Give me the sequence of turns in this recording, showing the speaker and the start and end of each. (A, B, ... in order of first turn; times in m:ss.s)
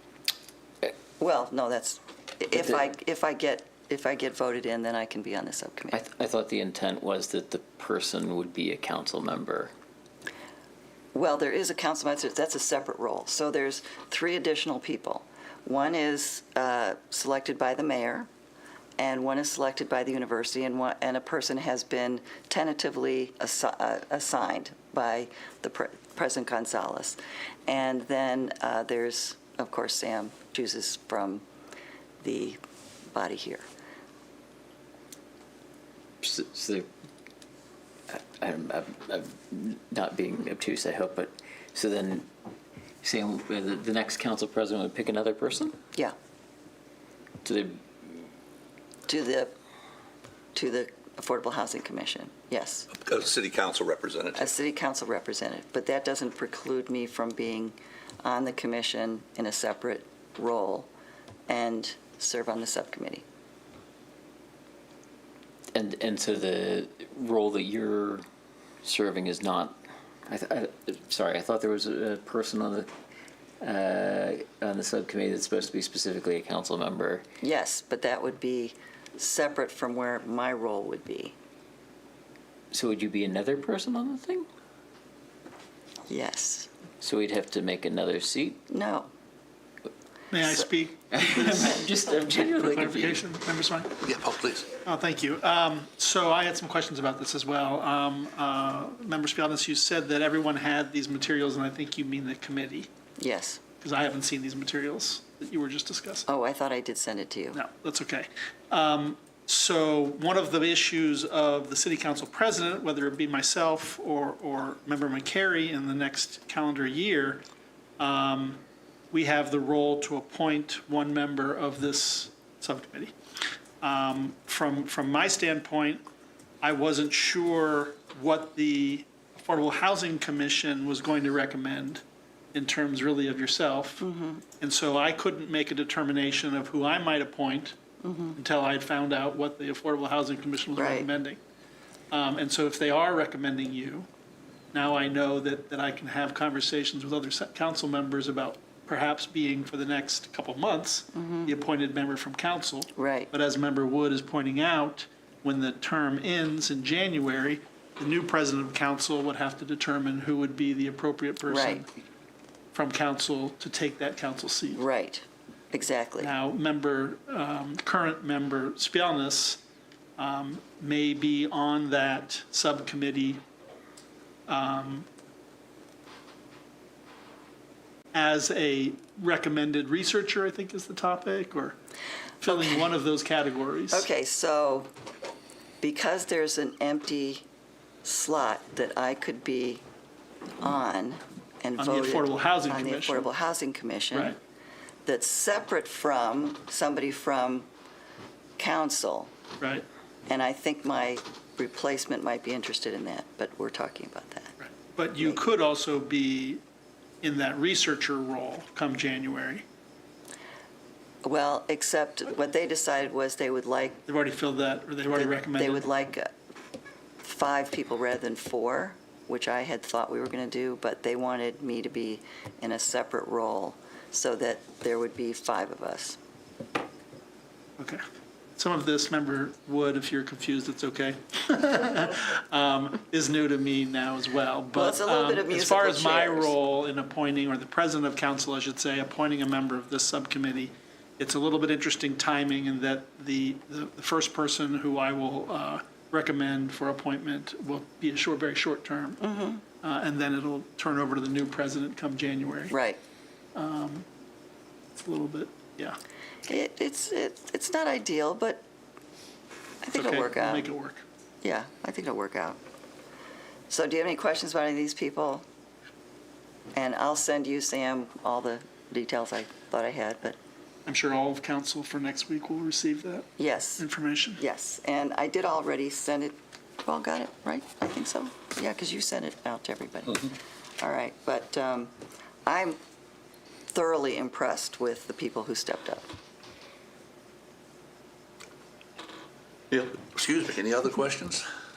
0:01.2-0:06.0 A
0:05.9-0:09.7 B
0:11.1-0:18.3 A
0:19.0-0:31.4 A
0:32.2-0:32.6 A
0:33.1-0:33.6 A
0:36.2-0:36.9 B
0:38.1-0:42.3 B
0:43.0-0:45.8 B
0:47.4-0:48.2 B
0:49.1-0:49.5 A
0:50.5-0:52.9 A
0:52.9-0:54.6 C
0:54.3-1:00.9 A
1:01.5-1:03.2 A
1:05.7-1:08.2 B
1:08.8-1:12.9 B
1:13.6-1:17.2 B
1:17.4-1:21.3 A
1:22.7-1:24.4 B
1:26.1-1:26.7 A
1:27.0-1:28.6 B
1:28.7-1:29.1 A
1:30.3-1:34.0 D
1:31.1-1:33.2 B
1:34.0-1:34.7 C
1:34.8-1:42.9 D
1:43.2-1:43.6 A
1:43.8-1:46.2 D
1:46.3-1:47.6 A
1:47.5-1:57.4 D
1:58.0-2:03.1 D
2:03.8-2:06.0 D
2:06.6-2:12.0 D
2:12.5-2:14.0 D
2:14.0-2:14.4 A
2:14.6-2:17.8 D
2:18.0-2:18.4 A
2:18.4-2:21.4 D
2:20.8-2:21.1 A
2:22.1-2:24.1 D
2:24.7-2:41.9 D
2:31.2-2:31.5 A
2:32.9-2:33.3 A
2:41.5-2:41.8 A
2:42.7-2:44.8 D
2:44.7-2:46.3 A
2:46.2-2:49.6 D
2:50.2-2:53.4 D
2:54.5-2:55.1 D
2:58.1-3:01.8 D
3:02.4-3:04.1 D
3:03.9-3:04.9 A
3:05.8-3:07.4 A
3:08.0-3:09.8 A
3:10.6-3:14.4 A
3:11.8-3:13.3 D
3:15.0-3:17.7 A
3:18.6-3:19.3 A
3:19.6-3:19.8 D
3:20.3-3:24.6 A
3:24.7-3:26.6 D
3:27.2-3:29.6 D
3:31.2-3:34.0 A
3:34.1-3:35.9 D
3:35.1-3:36.3 A
3:37.2-3:46.2 A
3:48.6-4:09.2 D
3:54.7-3:56.5 A
4:09.2-4:09.6 A
4:09.8-4:12.7 D
4:12.7-4:13.0 A
4:13.5-4:14.0 D
4:14.9-4:16.0 D
4:16.5-4:18.6 A
4:19.8-4:20.7 A
4:19.9-4:21.0 D
4:21.4-4:22.6 A
4:23.7-4:25.4 A
4:26.7-4:30.4 A
4:30.8-4:34.4 D
4:33.4-4:33.8 A
4:34.4-4:42.8 A
4:43.7-4:46.1 A
4:49.7-4:51.4 C